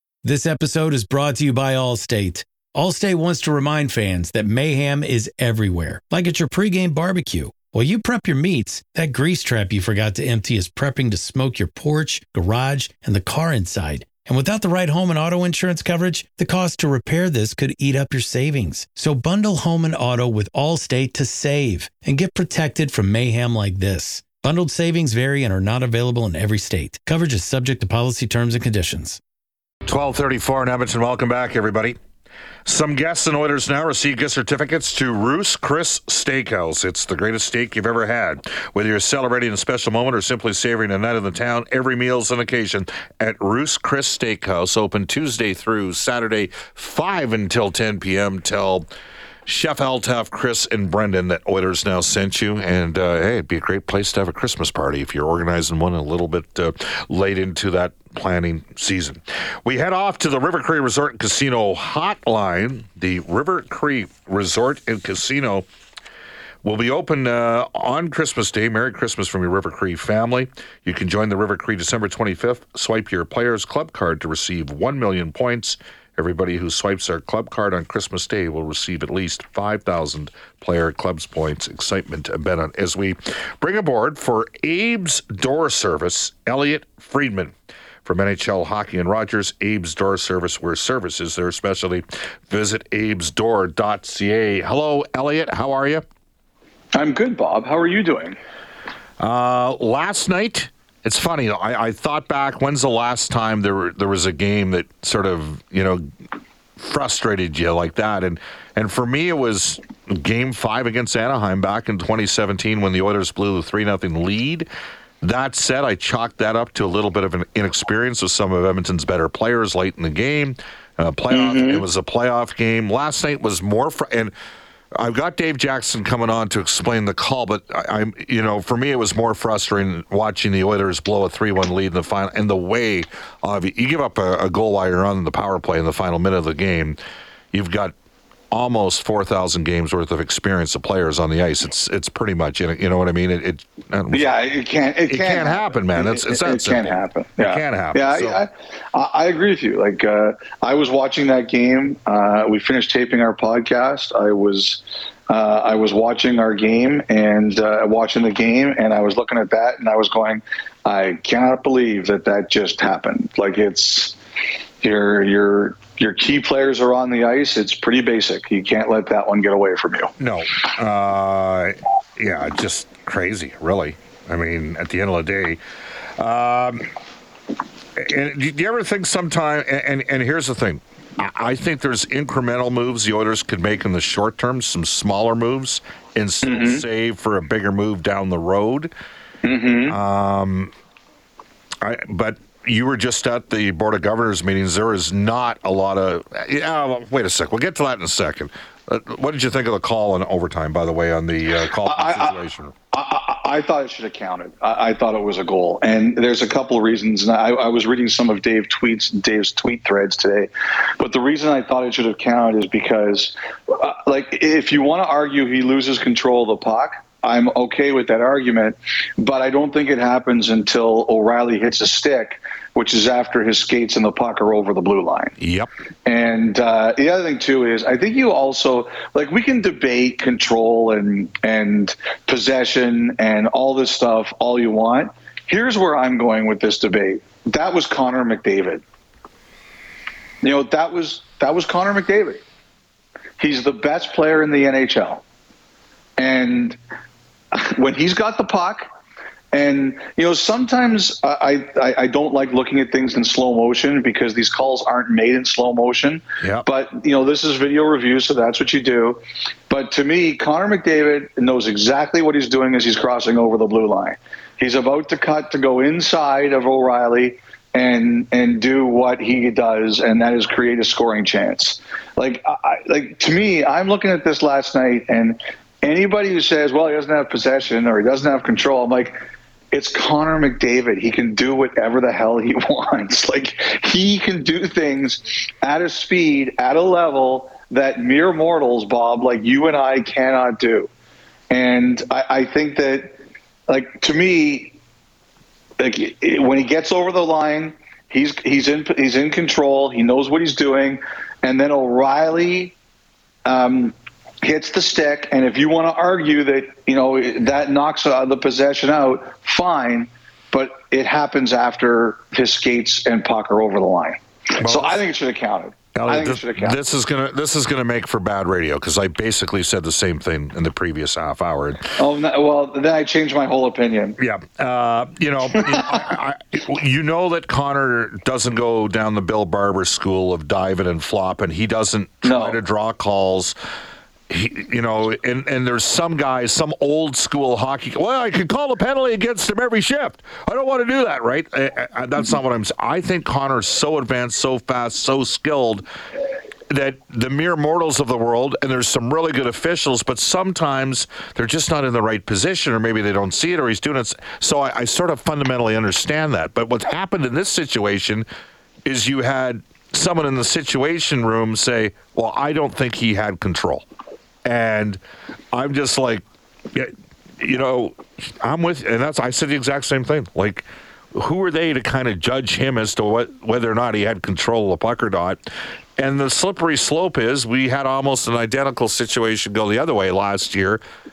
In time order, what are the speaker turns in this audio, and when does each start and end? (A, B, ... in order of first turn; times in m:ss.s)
0:00.2-0:29.2 A
0:29.8-0:32.0 B
0:32.6-0:48.9 B
0:49.4-1:05.6 B
1:06.6-1:36.0 B
1:36.9-1:38.4 C
1:39.2-1:46.0 B
1:46.8-1:54.7 B
1:55.2-2:04.3 B
2:01.3-2:01.8 C
2:05.0-2:17.0 B
2:17.5-2:17.9 B
2:18.5-2:24.3 B
2:24.1-2:44.2 C
2:25.1-2:28.4 B
2:44.8-2:50.1 C
2:50.2-2:55.6 B
2:56.2-2:56.9 B
2:58.0-3:08.9 B
3:06.4-3:06.8 C
3:09.4-3:10.0 C
3:09.9-3:10.7 B
3:11.8-3:22.7 B
3:21.8-3:22.4 C
3:22.9-3:45.4 C
3:45.4-3:45.7 B
3:46.0-3:58.8 C
4:00.4-4:02.4 C
4:03.4-4:05.2 C
4:06.2-4:06.8 C
4:07.5-4:08.9 C
4:09.5-4:39.2 C
4:39.7-4:50.9 C
4:51.5-4:53.2 C
4:53.7-4:54.7 C
4:55.8-5:02.7 C
5:03.4-5:16.8 C
5:14.6-5:15.0 B
5:15.9-5:21.8 B
5:22.0-5:24.2 C
5:24.2-5:33.5 B
5:25.6-5:26.0 C
5:32.2-5:32.6 C
5:34.3-5:45.8 B
5:46.7-5:58.2 B
5:58.8-6:03.8 B
6:04.4-6:05.0 B
6:05.5-6:20.8 B